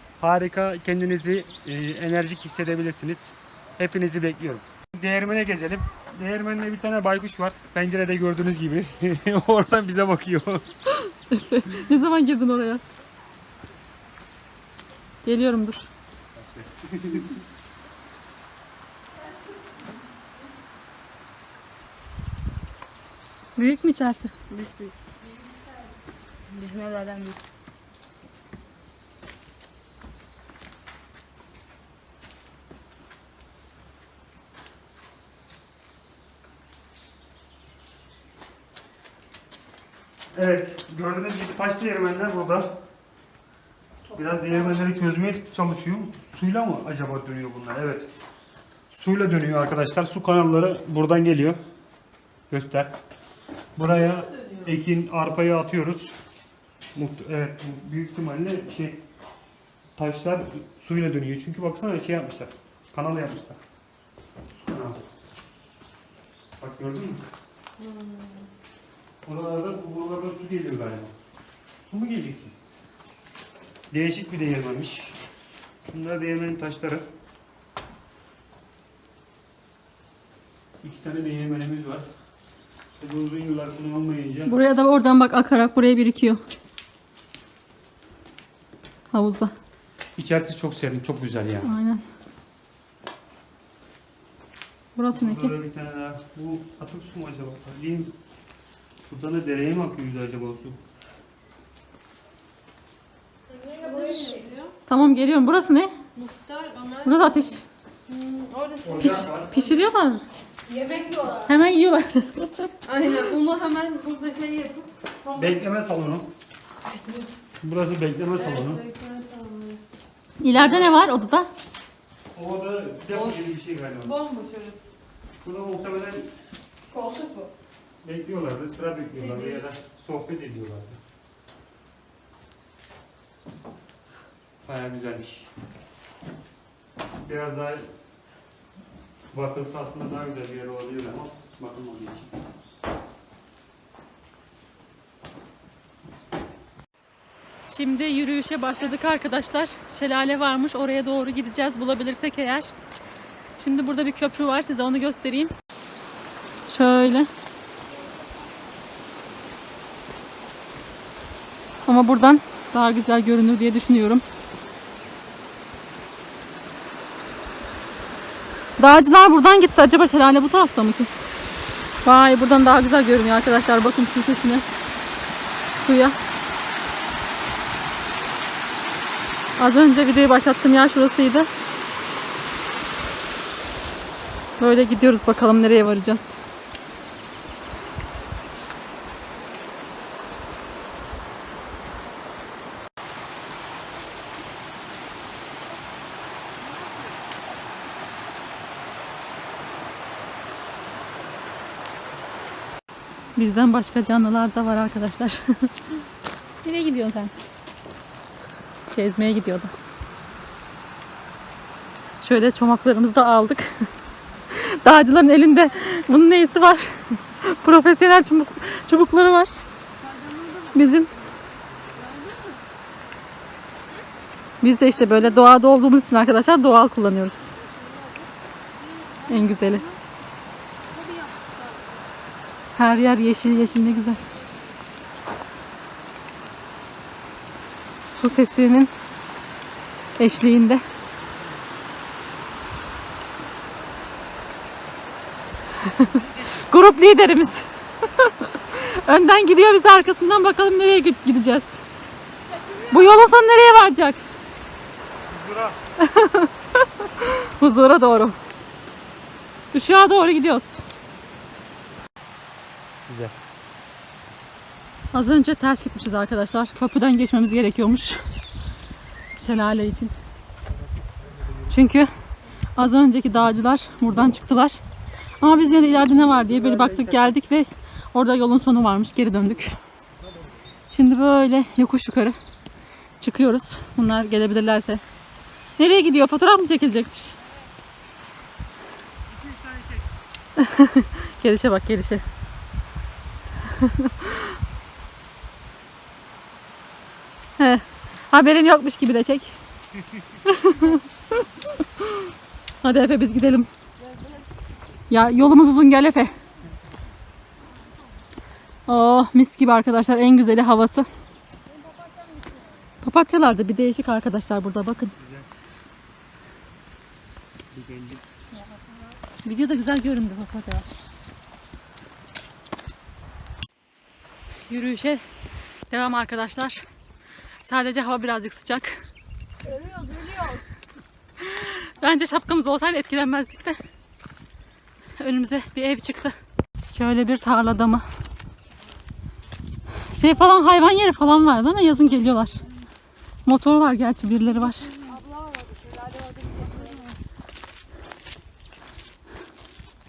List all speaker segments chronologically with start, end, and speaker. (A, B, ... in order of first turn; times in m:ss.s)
0:00.2-0:10.6 A
0:10.9-0:12.8 B
0:15.2-0:15.9 B
0:16.3-0:17.4 A
0:23.6-0:24.4 B
0:24.5-0:24.9 C
0:26.5-0:27.4 C
0:40.3-0:42.8 A
0:44.1-0:48.1 A
0:48.9-0:51.6 A
0:52.5-0:52.9 A
0:53.8-0:56.1 A
0:56.9-0:59.0 A
1:00.0-1:03.6 A
1:04.5-1:05.0 A
1:06.6-1:07.2 A
1:07.8-1:08.4 C
1:09.2-1:11.1 A
1:11.8-1:12.5 A
1:13.9-1:15.2 A
1:15.8-1:17.1 A
1:20.8-1:22.0 A
1:23.0-1:24.5 A
1:24.4-1:26.4 B
1:29.1-1:29.5 B
1:30.2-1:31.7 A
1:31.6-1:32.0 B
1:35.0-1:35.5 B
1:35.1-1:38.2 A
1:39.1-1:40.8 A
1:43.5-1:44.7 C
1:44.9-1:46.0 B
1:46.1-1:47.3 C
1:47.0-1:47.6 B
1:48.1-1:49.2 C
1:48.8-1:49.6 A
1:49.0-1:50.2 B
1:50.7-1:51.5 C
1:51.4-1:52.7 B
1:52.8-1:55.6 C
1:55.4-1:56.3 A
1:56.8-1:57.3 C
1:57.6-1:58.8 A
1:58.5-1:59.8 C
2:00.4-2:01.5 B
2:02.3-2:04.2 A
2:03.1-2:04.9 C
2:05.4-2:06.3 A
2:06.9-2:07.5 C
2:08.0-2:11.0 A
2:09.2-2:09.6 C
2:14.6-2:15.5 A
2:17.2-2:17.9 A
2:19.3-2:22.3 A
2:27.7-2:32.7 B
2:33.6-2:35.5 B
2:36.7-2:37.3 B
2:41.8-2:44.2 B
2:48.8-2:51.1 B
2:52.0-2:54.6 B
2:55.8-2:56.2 B
2:59.6-3:01.5 B
3:04.6-3:06.4 B
3:23.4-3:25.7 B
3:26.6-3:27.3 B
3:28.9-3:29.7 B
3:32.2-3:33.7 B
3:34.5-3:39.6 B
3:40.0-3:40.8 C
3:40.7-3:41.1 B
3:41.9-3:42.6 C
3:44.6-3:47.5 B
3:47.7-3:48.3 C
3:48.8-3:50.0 C
3:49.3-3:49.8 B
3:50.9-3:51.8 C
3:52.8-3:54.2 B
3:58.1-3:58.9 B
4:00.2-4:00.8 B
4:05.8-4:11.8 B
4:05.9-4:06.7 A
4:12.9-4:14.2 B
4:15.3-4:15.8 A
4:16.0-4:18.4 B
4:19.7-4:20.8 B
4:23.1-4:23.4 A
4:25.1-4:28.2 B
4:29.4-4:30.1 B
4:31.7-4:32.1 B
4:32.8-4:34.8 B
4:35.4-4:39.7 B
4:36.5-4:37.3 A
4:40.9-4:42.4 B
4:43.2-4:45.0 B
4:45.8-4:47.4 B
4:49.3-4:50.1 A
4:50.6-4:52.2 B
4:53.7-4:54.5 B
4:57.6-4:59.6 B
5:00.1-5:00.4 A
5:00.4-5:02.3 B
5:02.8-5:03.7 B
5:05.1-5:06.3 B
5:08.9-5:11.1 B
5:11.7-5:12.7 C
5:13.0-5:15.1 B
5:15.2-5:15.5 A
5:17.7-5:18.2 A
5:19.4-5:21.0 B
5:24.7-5:25.2 B
5:25.9-5:26.8 B
5:27.6-5:29.1 B
5:29.7-5:30.6 C
5:31.4-5:33.8 B
5:35.2-5:36.3 B
5:36.9-5:38.0 B
5:40.1-5:42.6 B
5:43.4-5:44.9 B
5:45.0-5:47.1 C